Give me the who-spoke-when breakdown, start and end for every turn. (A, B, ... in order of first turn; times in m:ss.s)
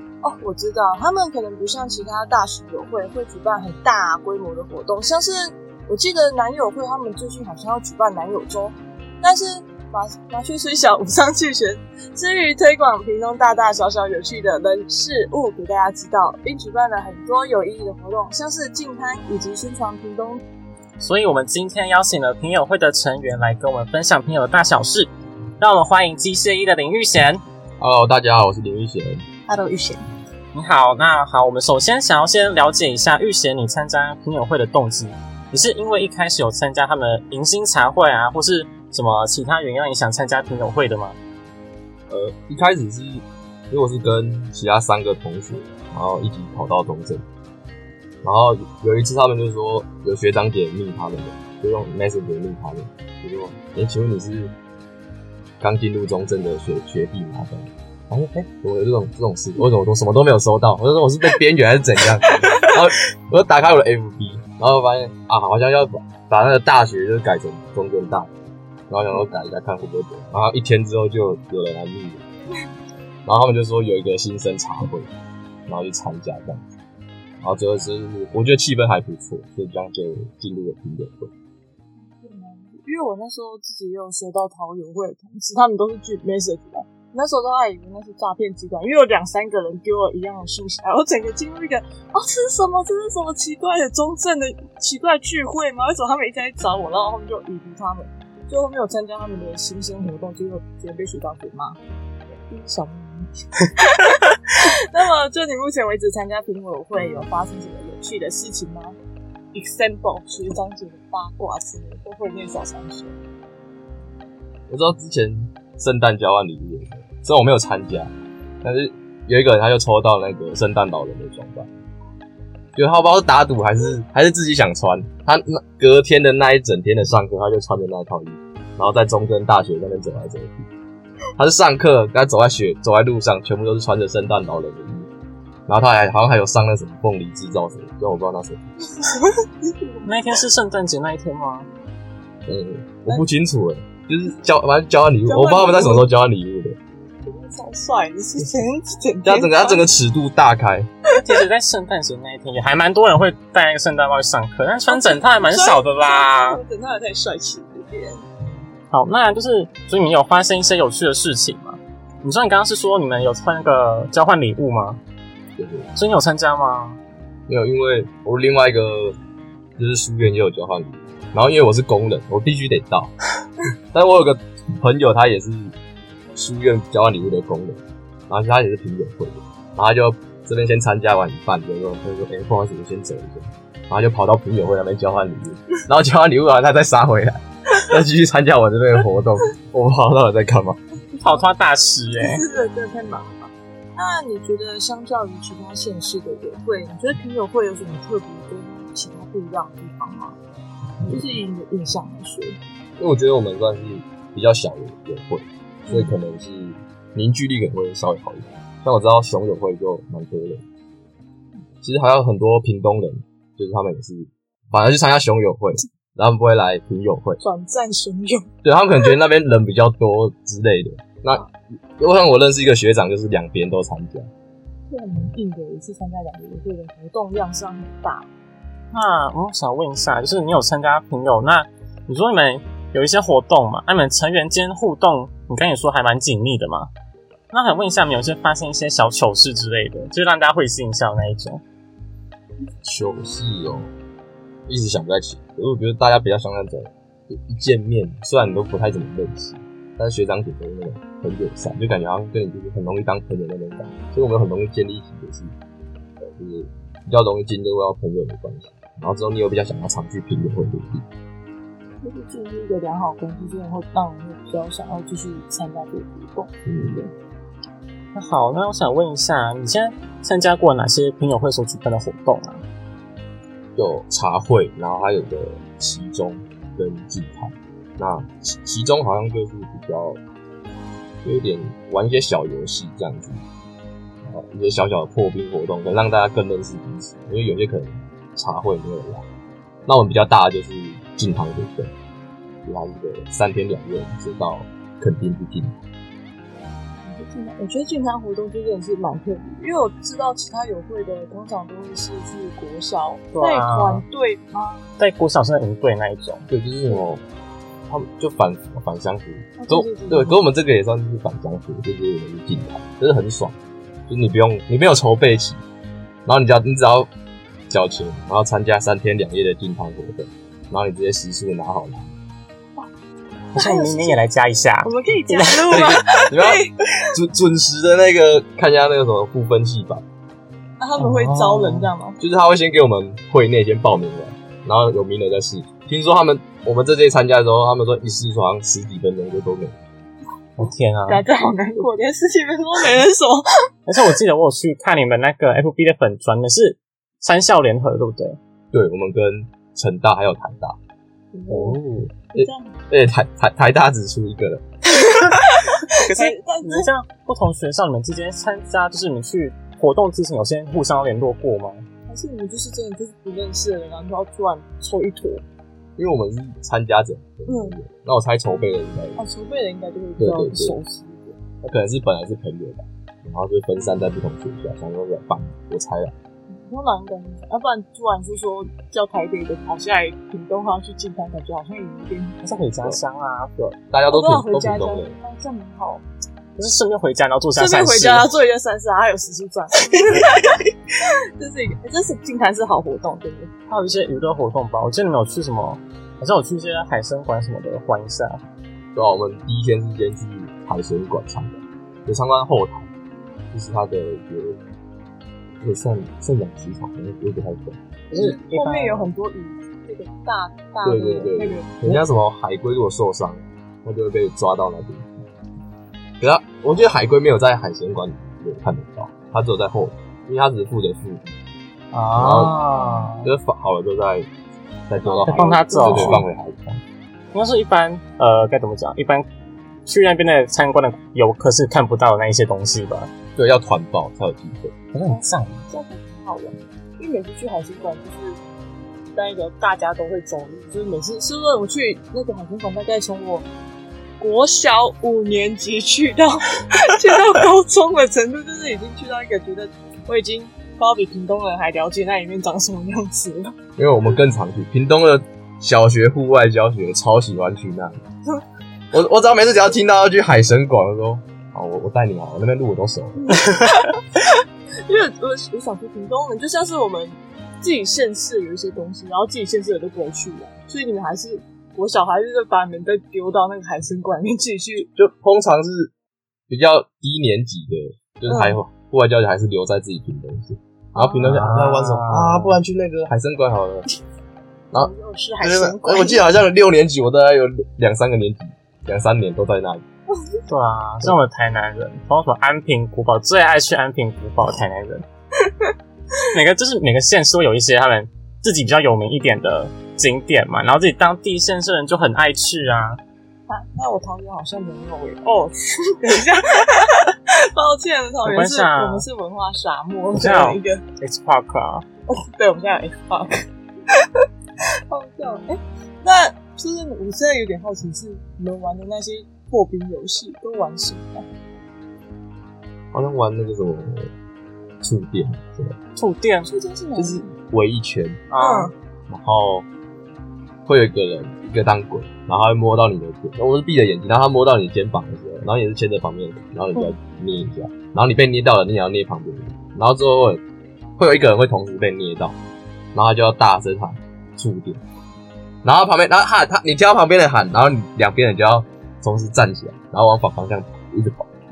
0:00.2-0:20.4 A
0:21.0-0:27.4 B
0:27.8-0:29.2 C
0:29.5-0:30.0 A
0:30.5-0:41.2 B
0:42.1-0:47.2 C
0:48.2-0:54.5 C
0:55.6-1:08.3 C
1:08.9-1:12.2 C
1:13.2-1:15.1 C
1:15.7-1:16.7 C
1:17.4-1:21.3 C
1:22.0-1:41.8 A
1:42.5-1:49.0 A
1:49.5-1:53.2 A
1:54.7-1:58.1 C
1:58.6-2:01.7 C
2:02.8-2:10.7 C
2:11.4-2:15.1 C
2:15.7-2:18.6 C
2:19.0-2:20.1 A
2:20.0-2:21.7 B
2:22.4-2:26.8 C
2:25.2-2:26.0 A
2:27.2-2:29.8 A
2:29.2-2:30.9 C
2:31.2-2:36.6 B
2:34.9-2:38.2 A
2:38.9-2:45.0 B
2:45.6-2:45.9 C
2:45.9-2:47.0 B
2:47.5-2:49.2 C
2:49.8-2:53.1 C
2:53.9-2:55.7 C
2:56.3-3:10.8 C
3:11.2-3:12.4 B
3:12.2-3:20.4 A
3:21.0-3:21.3 C
3:21.1-3:22.6 A
3:23.0-3:30.6 C
3:25.9-3:26.1 A
3:31.8-3:37.4 C
3:37.4-3:38.5 A
3:38.6-3:44.3 C
3:44.9-3:48.3 A
3:48.9-3:56.9 B
3:57.5-4:01.6 B
4:02.8-4:03.9 C
4:04.7-4:15.5 C
4:16.2-4:21.0 C
4:22.0-4:27.1 A
4:26.6-4:27.0 C
4:28.1-4:32.6 B
4:33.8-4:40.2 C
4:41.2-4:43.4 C
4:44.2-4:49.2 C
4:49.8-4:51.9 C
4:52.6-4:55.8 C
4:57.0-5:04.8 A
5:03.3-5:04.0 B
5:05.0-5:06.4 B
5:06.5-5:07.2 C
5:07.9-5:13.6 C
5:09.6-5:10.4 A
5:14.1-5:15.6 C
5:16.2-5:17.1 C
5:17.7-5:22.1 C
5:23.5-5:25.8 B
5:23.6-5:24.2 A
5:24.8-5:26.8 A
5:25.7-5:30.0 C
5:30.8-5:32.2 A
5:31.0-5:31.9 B
5:32.2-5:39.8 C
5:40.6-5:41.2 B
5:41.1-5:43.5 A
5:43.9-5:48.4 B
5:48.7-5:50.8 C
5:51.3-5:52.8 A
5:51.5-5:52.1 B
5:52.3-5:54.6 C
5:55.0-5:56.9 A
5:55.9-6:01.8 B
6:02.1-6:05.4 A
6:06.0-6:09.2 C
6:07.4-6:07.8 A
6:09.2-6:11.4 A
6:10.2-6:10.7 C
6:11.6-6:16.1 C
6:16.5-6:22.4 A
6:22.4-6:23.8 B
6:23.9-6:25.2 C
6:24.1-6:26.0 A
6:26.6-6:28.3 B
6:27.6-6:30.6 A
6:31.4-6:33.5 A
6:33.7-6:38.4 B
6:38.9-6:42.9 C
6:43.5-6:44.6 C
6:45.6-6:47.8 C
6:48.1-6:49.1 B
6:48.1-6:51.8 A
6:50.8-6:55.2 C
6:56.2-7:01.3 C
7:01.9-7:03.3 B
7:02.2-7:02.6 C
7:02.4-7:03.1 A
7:03.2-7:04.3 C
7:04.9-7:06.8 C
7:05.0-7:06.2 A
7:05.2-7:06.2 B
7:07.3-7:09.2 B
7:09.8-7:13.1 B
7:13.4-7:14.7 C
7:14.9-7:15.7 B
7:15.1-7:18.4 A
7:19.1-7:23.5 A
7:24.2-7:33.5 A
7:33.8-7:38.0 C
7:38.9-7:43.4 C
7:43.3-7:43.9 A
7:44.9-7:54.9 A
7:55.0-7:55.9 C
7:56.5-8:03.8 C
7:58.3-7:58.6 A
8:00.9-8:01.4 A
8:01.2-8:02.6 B
8:04.7-8:06.2 A
8:05.4-8:09.8 C
8:10.5-8:15.0 B
8:16.3-8:23.0 B
8:23.5-8:30.8 A
8:28.2-8:29.0 B
8:30.1-8:31.8 B
8:32.1-8:33.9 A
8:34.9-8:41.2 A
8:42.9-8:44.1 C
8:44.8-8:45.8 C
8:46.0-8:46.5 B
8:46.4-8:47.3 A
8:47.0-8:48.2 C
8:48.3-8:48.7 B
8:48.4-8:48.7 A
8:49.1-8:49.7 C
8:50.6-9:00.4 C
9:01.0-9:02.4 C
9:02.9-9:04.8 C
9:05.6-9:11.3 C